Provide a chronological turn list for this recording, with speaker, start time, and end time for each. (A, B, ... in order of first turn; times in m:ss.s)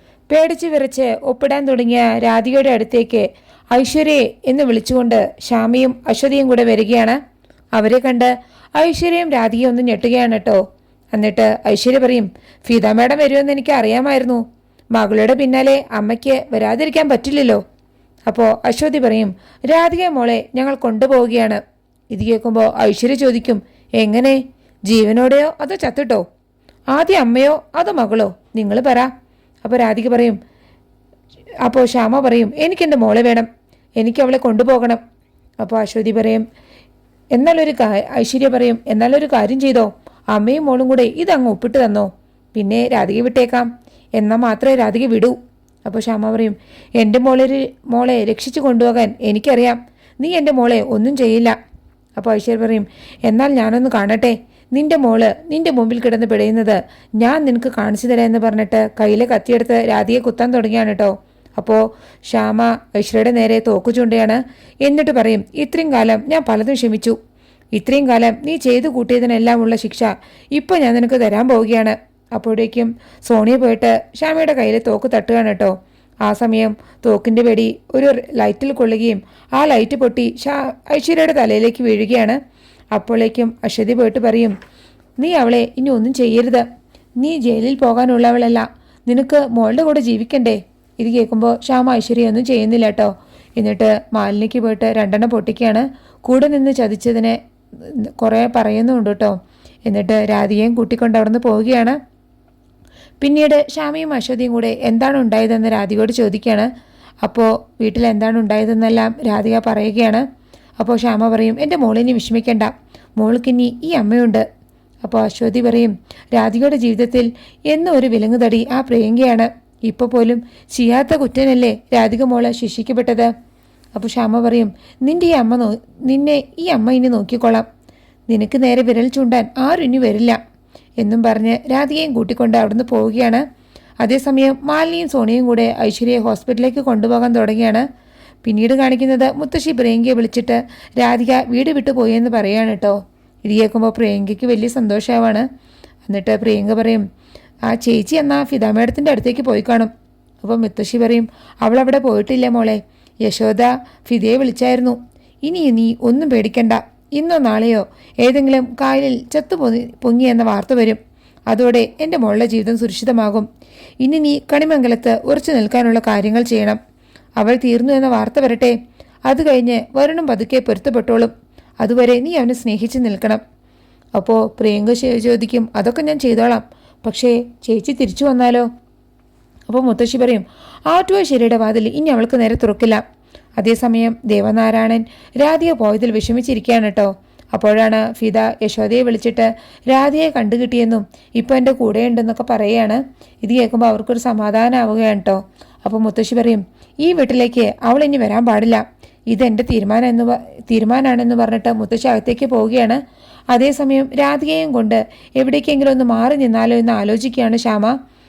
0:00.3-0:07.2 A
0:07.7-0:10.6 A
0:11.1-0:17.6 A
0:18.3-0:26.2 A
0:26.9-0:29.1 A
0:29.6-0:30.4 A
0:31.6-0:33.5 A
0:34.0-0:35.0 A
0:35.6-0:36.4 A
0:37.3-0:51.6 A
0:52.2-1:07.2 A
1:07.7-1:22.4 A
1:22.9-1:24.6 A
1:25.2-1:26.6 A
1:27.2-1:42.0 A
1:43.2-1:46.7 A
1:47.2-1:50.2 A
1:50.8-1:54.4 A
1:55.0-2:03.3 A
2:03.9-2:07.6 A
2:08.3-2:10.4 A
2:11.0-2:13.4 A
2:14.0-2:17.8 A
2:18.4-2:25.5 A
2:26.0-2:27.0 A
2:27.7-2:41.0 A
2:41.5-2:43.5 A
2:44.0-2:46.8 A
2:47.4-2:53.4 A
2:54.2-2:58.7 A
2:59.7-3:03.0 A
3:03.6-3:23.0 A
3:23.5-3:28.0 A